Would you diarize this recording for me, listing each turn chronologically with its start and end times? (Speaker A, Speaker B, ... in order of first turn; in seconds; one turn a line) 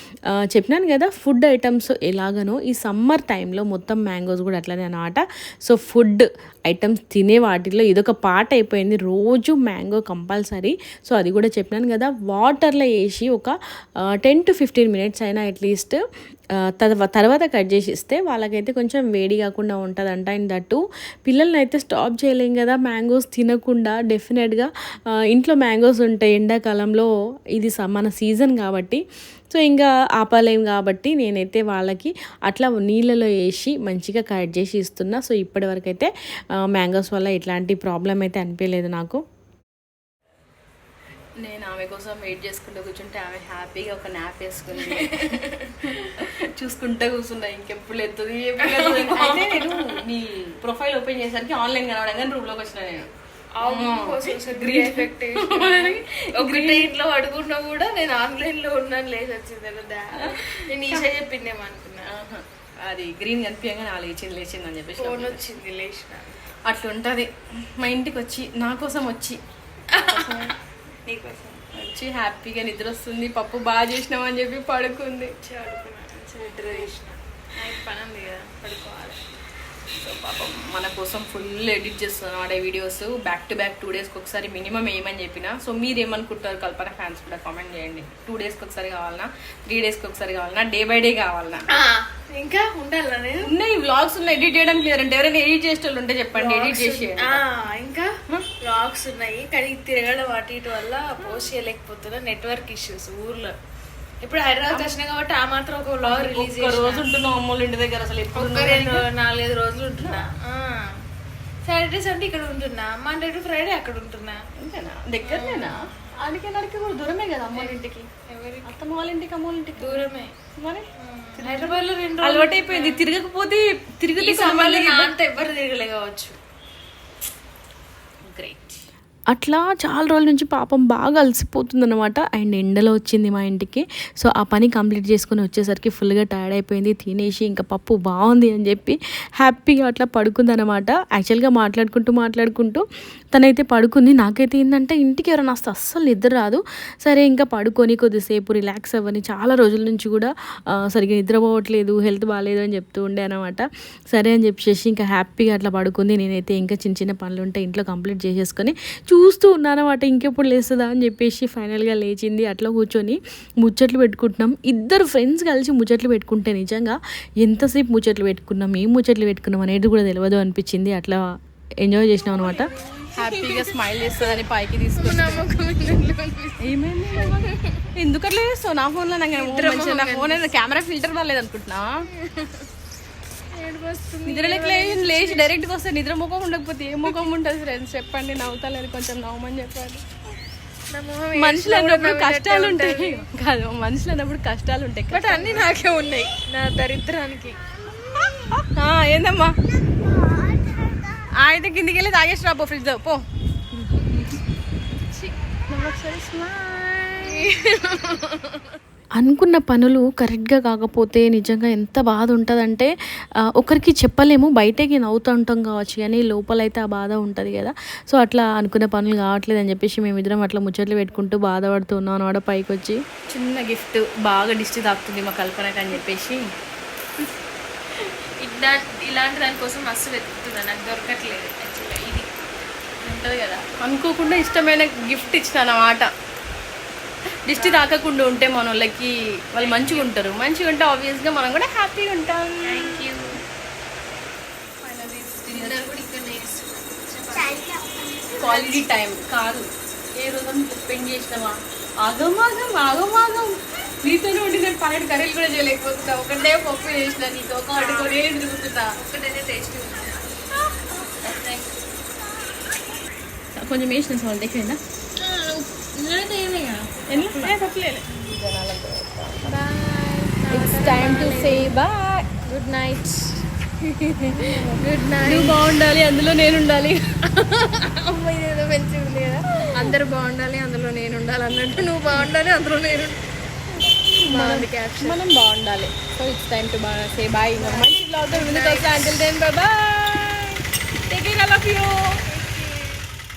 Speaker A: 0.3-16.0
Speaker A: 16.6-24.7
Speaker A: 25.3-29.0
Speaker A: 29.5-36.1
Speaker A: 36.7-39.2
Speaker B: 41.4-53.1
Speaker C: 44.9-45.7
Speaker C: 48.6-50.0
Speaker C: 53.6-62.1
Speaker B: 53.6-56.9
Speaker B: 60.1-61.2
Speaker B: 62.0-65.5
Speaker C: 65.0-66.4
Speaker B: 66.7-69.4
Speaker C: 69.9-70.5
Speaker B: 69.9-70.5
Speaker C: 71.1-71.7
Speaker B: 71.7-75.3
Speaker C: 75.4-79.2
Speaker B: 76.6-76.9
Speaker B: 79.9-91.7
Speaker C: 91.7-93.5
Speaker B: 93.4-97.5
Speaker C: 96.3-103.5
Speaker B: 101.2-101.5
Speaker C: 104.2-107.2
Speaker B: 104.7-105.0
Speaker B: 106.0-109.1
Speaker C: 108.3-110.9
Speaker B: 110.0-110.3
Speaker C: 111.6-114.4
Speaker B: 114.6-118.1
Speaker C: 115.2-116.1
Speaker C: 117.5-118.7
Speaker B: 118.6-125.1
Speaker C: 119.8-120.3
Speaker C: 121.0-123.1
Speaker C: 124.2-126.4
Speaker C: 128.3-128.8
Speaker A: 129.3-171.2
Speaker A: 171.8-172.7
Speaker C: 172.4-174.4
Speaker B: 173.1-175.5
Speaker C: 174.9-177.9
Speaker B: 176.6-181.9
Speaker C: 179.3-180.5
Speaker C: 182.1-182.7
Speaker C: 183.5-185.5
Speaker B: 184.2-190.0
Speaker C: 190.9-193.3
Speaker B: 191.3-195.7
Speaker C: 195.1-197.6
Speaker B: 198.6-199.5
Speaker B: 201.4-203.2
Speaker B: 204.1-204.3
Speaker B: 205.7-207.5
Speaker C: 207.2-208.7
Speaker A: 209.2-212.9
Speaker A: 213.6-223.0
Speaker B: 223.3-226.4
Speaker C: 228.0-232.3
Speaker B: 233.0-236.1
Speaker B: 237.5-243.1
Speaker C: 237.5-237.9
Speaker C: 239.6-240.1
Speaker C: 242.6-243.3
Speaker B: 244.8-246.0
Speaker C: 245.5-248.9
Speaker B: 248.4-258.9
Speaker C: 257.7-258.3
Speaker C: 259.0-260.2
Speaker C: 261.2-261.7
Speaker B: 263.6-264.8
Speaker C: 265.2-267.6
Speaker B: 267.1-269.6
Speaker C: 269.4-271.7
Speaker B: 270.5-272.3
Speaker C: 272.4-275.8
Speaker B: 274.2-277.1
Speaker C: 277.3-283.2
Speaker B: 279.7-280.0
Speaker B: 283.8-292.2
Speaker C: 284.3-285.2
Speaker C: 287.6-289.1
Speaker C: 292.2-293.0